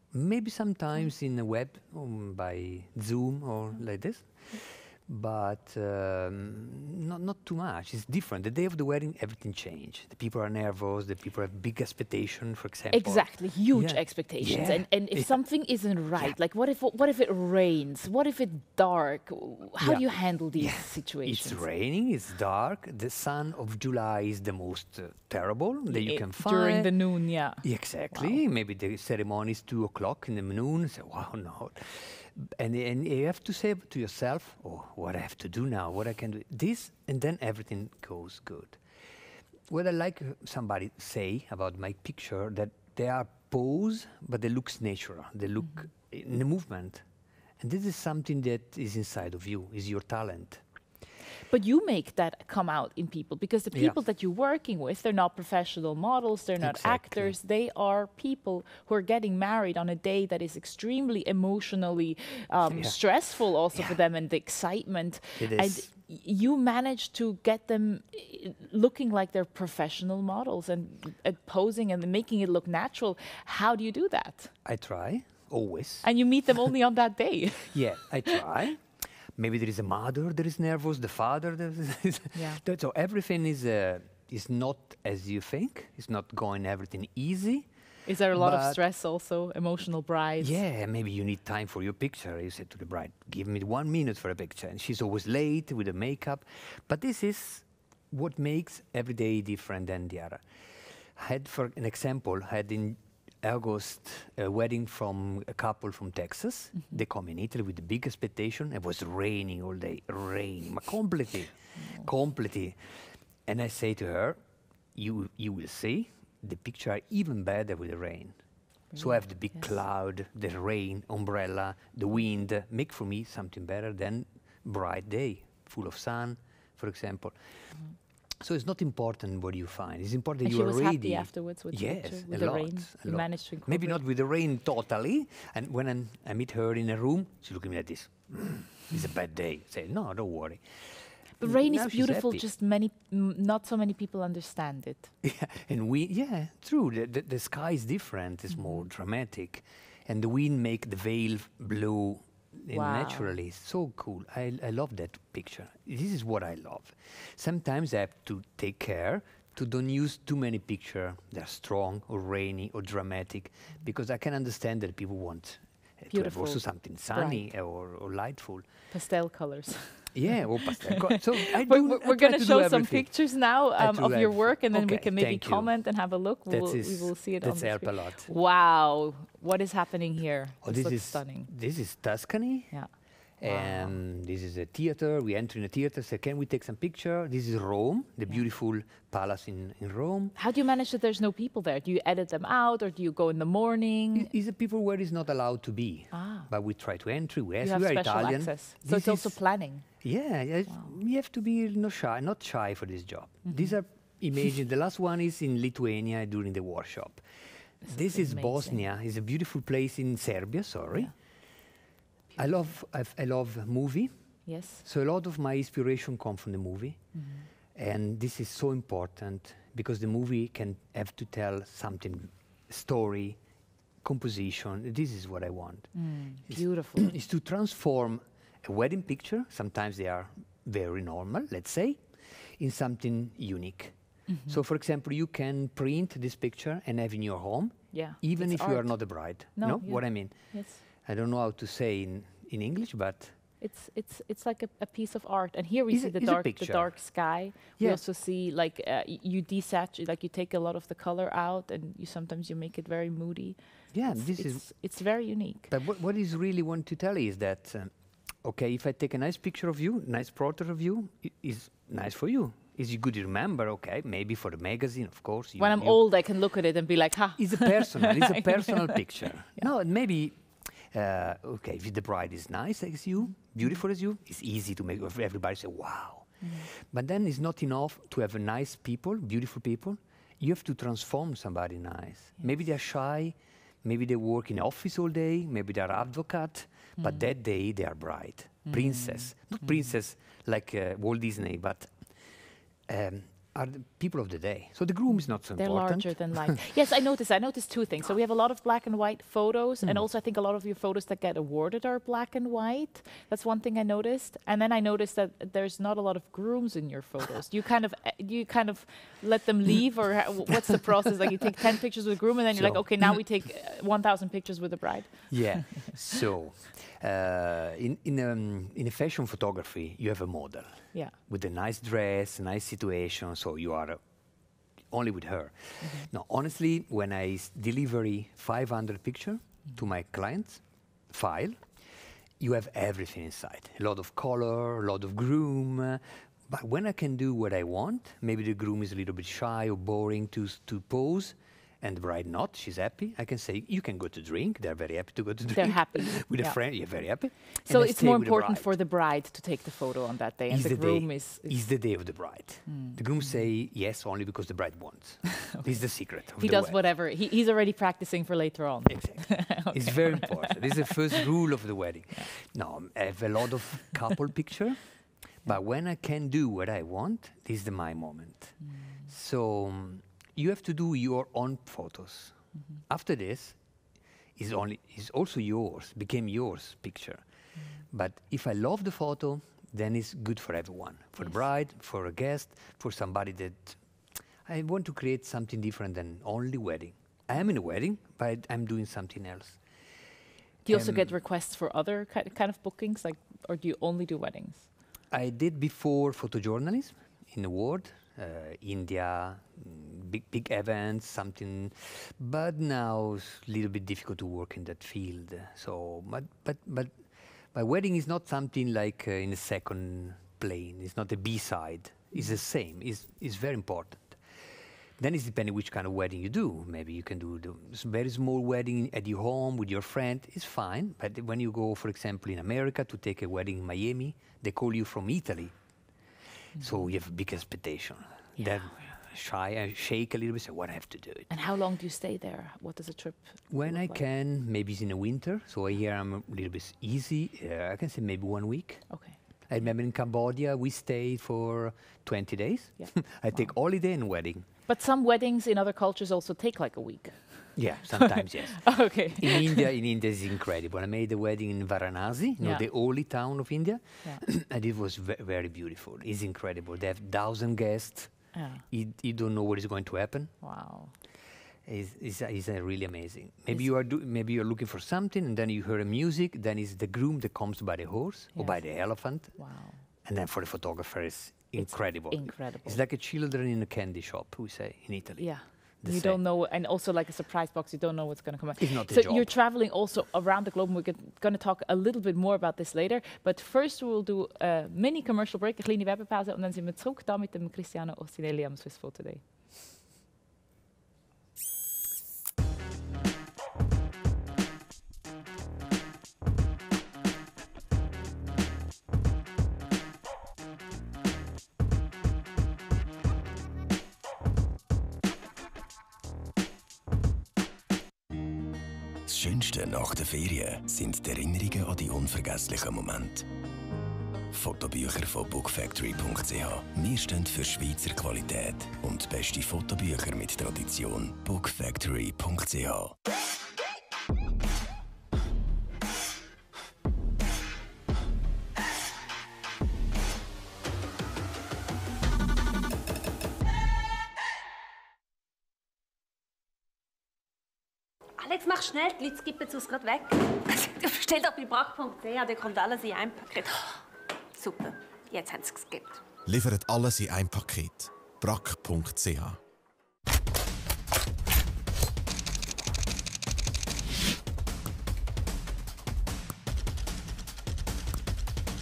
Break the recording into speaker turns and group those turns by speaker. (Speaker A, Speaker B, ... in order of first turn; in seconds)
Speaker A: 0.1-15.3, 19.8-26.9, 27.6-38.8, 39.7-47.0, 47.6-50.6, 56.6-57.4, 62.7-63.0, 65.4-65.9, 74.6-76.0, 77.7-78.8, 79.4-87.7, 88.3-88.8, 90.4-100.4, 101.1-114.4, 114.9-118.4, 118.9-127.3, 128.4-142.4, 145.2-168.7, 170.1-173.1, 173.7-175.7, 176.5-178.3, 180.6-182.7, 183.4-190.3, 194.1-199.4, 200.0-207.2, 207.8-211.1, 212.3-214.1, 214.8-217.0, 217.7-223.4, 224.0-225.9, 226.5-233.9, 234.5-243.3, 245.9-246.9, 253.9-254.7, 255.7-266.0, 267.4-292.1, 292.9-296.5, 312.5-313.2, 315.3-324.0, 324.9-331.7, 332.4-348.7, 350.5-356.8, 358.9-372.4, 372.9-373.6, 374.4-377.2, 377.9-383.8, 384.4-389.6, 390.7-391.1, 395.1-406.9, 407.5-414.2, 415.0-425.5, 426.6-431.3, 433.5-438.9, 439.5-444.5, 447.6-460.3, 461.6-469.4, 470.0-476.2, 478.6-479.3
Speaker B: 12.9-21.6, 25.9-28.4, 51.5-74.5, 76.0-77.8, 82.3-82.6, 88.0-90.6, 111.8-112.0, 118.9-119.7, 130.4-134.0, 141.4-145.1, 148.5-148.8, 152.7-153.3, 166.1-167.4, 168.9-181.5, 183.4-183.9, 190.3-194.3, 196.1-196.5, 197.6-199.9, 203.4-203.7, 207.8-208.8, 214.4-214.8, 217.1-217.5, 225.9-227.1, 234.3-234.6, 237.9-240.8, 243.6-253.6, 254.1-255.7, 265.6-269.0, 276.4-276.7, 287.0-287.3, 288.7-289.3, 295.6-315.9, 325.8-326.1, 345.6-346.6, 347.6-351.6, 352.6-353.0, 356.4-361.2, 368.8-369.0, 390.6-394.7, 431.3-434.0, 438.9-439.1, 442.8-443.5, 444.7-449.7, 458.3-458.6, 460.4-460.9, 468.3-469.8, 471.6-472.8, 475.2-489.2
Speaker C: 509.1-513.2, 514.3-522.9
Speaker D: 538.2-543.8, 544.3-546.0
Speaker E: 546.2-549.4